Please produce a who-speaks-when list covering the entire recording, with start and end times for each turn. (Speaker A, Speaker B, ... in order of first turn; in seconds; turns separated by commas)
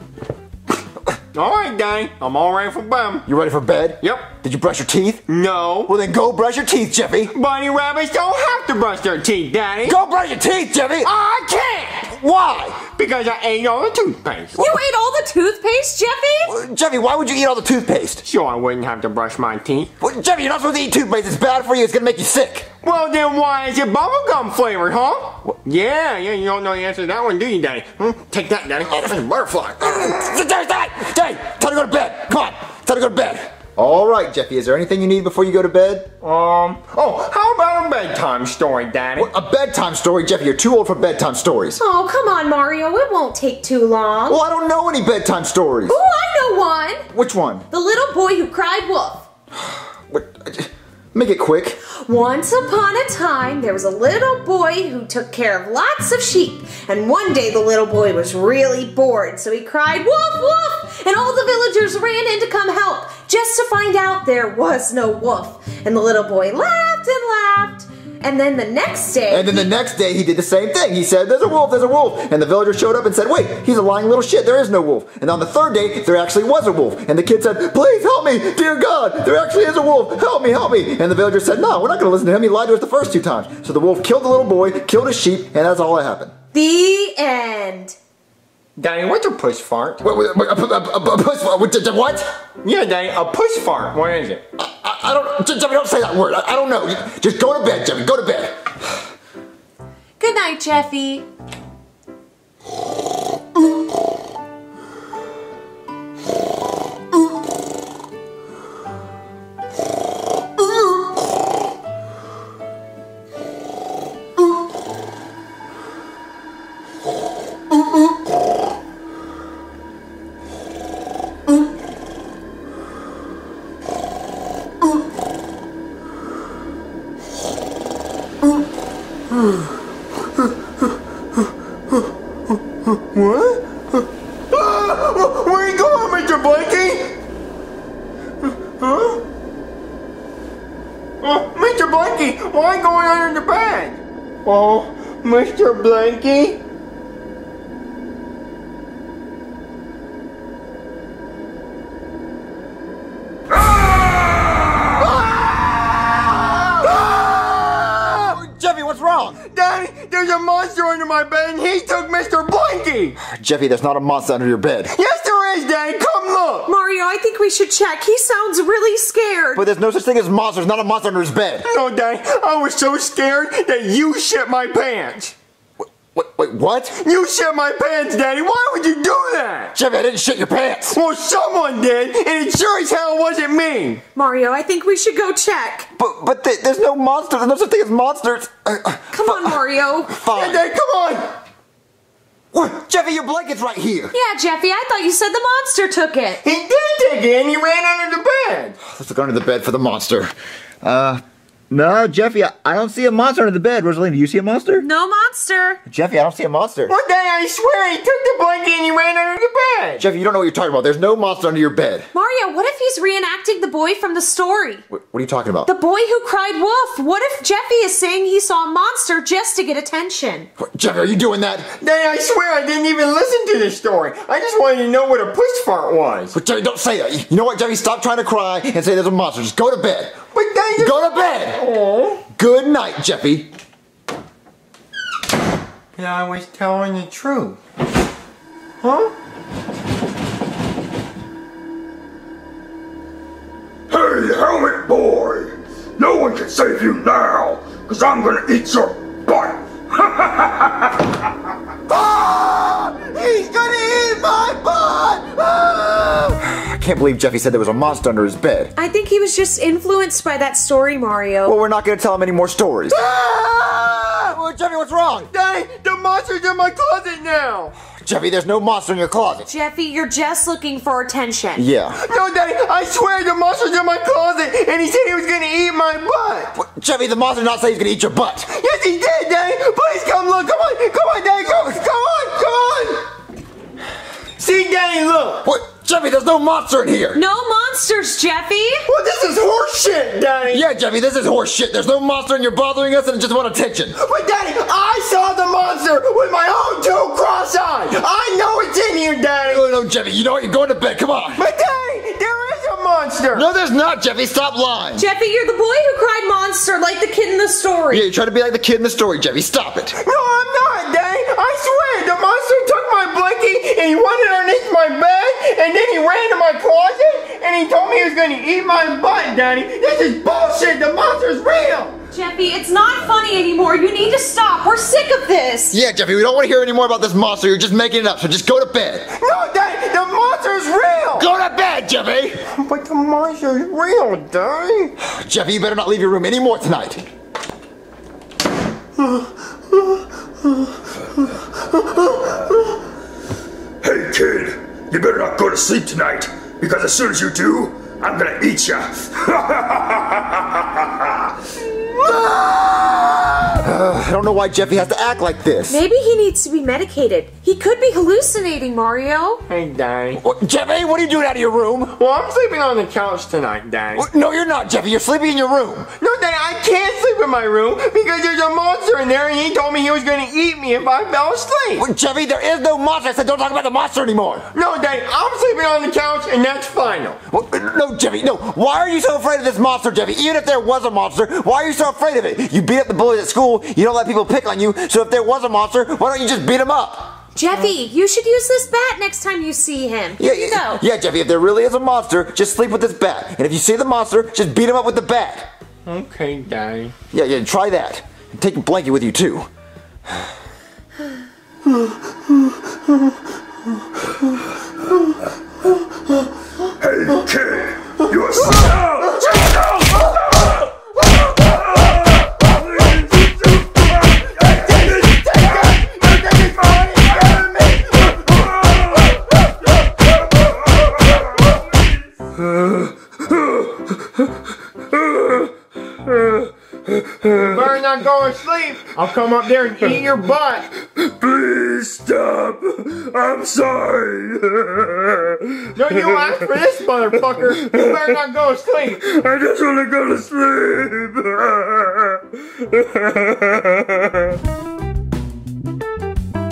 Speaker A: 1.3-3.2, Speaker B: 3.3-5.2, Speaker A: 4.0-4.3, Speaker A: 5.3-5.9, Speaker B: 5.9-7.3, Speaker A: 7.3-10.0, Speaker B: 9.8-11.1, Speaker A: 11.0-12.1, Speaker B: 12.1-12.8, Speaker A: 12.8-14.7, Speaker C: 14.6-16.6, Speaker B: 16.4-18.2, Speaker A: 18.2-19.9, Speaker B: 20.0-22.7, Speaker A: 22.8-30.4, Speaker B: 29.8-36.1, Speaker A: 36.2-39.3, Speaker B: 39.1-41.8, Speaker C: 41.8-44.4, Speaker B: 44.3-46.0, Speaker C: 45.9-47.1, Speaker B: 47.1-47.6, Speaker C: 47.7-49.3, Speaker B: 49.5-51.8, Speaker C: 51.9-69.7, Speaker B: 69.3-86.3, Speaker C: 86.5-87.9, Speaker A: 88.8-90.0, Speaker B: 90.0-92.2, Speaker A: 92.6-94.4, Speaker B: 94.6-98.7, Speaker C: 100.2-101.3, Speaker A: 132.8-137.1, Speaker A: 138.4-139.2, Speaker A: 141.2-146.6, Speaker A: 155.0-156.9, Speaker B: 156.9-159.4, Speaker A: 159.5-163.2, Speaker B: 163.2-164.9, Speaker A: 164.9-166.7, Speaker C: 166.7-169.6, Speaker B: 169.6-171.7, Speaker A: 171.6-175.3, Speaker B: 176.0-176.9, Speaker A: 176.9-179.7, Speaker B: 179.7-181.0, Speaker A: 180.9-184.0, Speaker C: 184.1-185.9, Speaker B: 185.9-190.6, Speaker C: 189.1-190.1, Speaker A: 190.3-191.3, Speaker B: 192.5-194.1, Speaker C: 194.1-196.4, Speaker A: 196.4-198.8, Speaker B: 198.8-204.8, Speaker C: 204.8-205.8, Speaker B: 205.8-206.9, Speaker A: 206.9-210.0, Speaker B: 210.0-212.1, Speaker C: 212.1-214.8, Speaker B: 214.9-215.7, Speaker C: 215.7-220.5, Speaker B: 220.6-221.7, Speaker A: 221.8-226.3, Speaker B: 226.3-230.2, Speaker A: 230.3-232.2, Speaker B: 230.8-231.6, Speaker B: 232.3-233.5, Speaker A: 235.9-237.6, Speaker A: 238.8-239.1, Speaker D: 243.9-251.1, Speaker B: 251.9-258.7, Speaker C: 258.8-261.6, Speaker B: 261.4-263.2, Speaker A: 262.9-264.1, Speaker B: 263.9-265.3, Speaker A: 265.3-267.7, Speaker B: 268.0-269.5, Speaker C: 269.4-271.6, Speaker B: 271.6-272.0, Speaker A: 271.9-276.5, Speaker B: 276.5-278.5, Speaker A: 278.5-283.1, Speaker A: 284.4-285.4, Speaker B: 285.4-287.2, Speaker C: 287.1-288.8, Speaker A: 288.9-290.6, Speaker B: 290.5-294.0, Speaker A: 294.0-299.6, Speaker B: 299.5-301.4, Speaker A: 301.4-303.5, Speaker B: 303.3-305.1, Speaker C: 305.0-308.0, Speaker B: 307.9-309.9, Speaker A: 310.0-321.9, Speaker C: 322.1-325.8, Speaker B: 325.7-329.1, Speaker A: 329.2-331.3, Speaker B: 331.2-332.4, Speaker A: 332.5-334.9, Speaker B: 335.0-337.0, Speaker D: 343.8-351.2, Speaker A: 351.9-353.4, Speaker B: 353.5-355.8, Speaker C: 355.7-359.4, Speaker A: 359.5-360.2, Speaker B: 360.2-361.9, Speaker A: 361.9-364.1, Speaker B: 363.9-365.9, Speaker A: 366.0-371.8, Speaker B: 371.8-374.5, Speaker A: 374.5-377.2, Speaker B: 377.3-387.2, Speaker C: 387.3-390.8, Speaker B: 390.2-395.5, Speaker A: 395.9-396.9, Speaker B: 397.1-399.5, Speaker D: 406.8-409.8, Speaker D: 411.8-413.2, Speaker A: 414.3-418.5, Speaker D: 423.3-423.9, Speaker D: 424.9-425.5, Speaker D: 426.1-426.5, Speaker A: 427.3-430.7, Speaker D: 431.0-435.7, Speaker A: 435.7-439.1, Speaker D: 439.1-444.2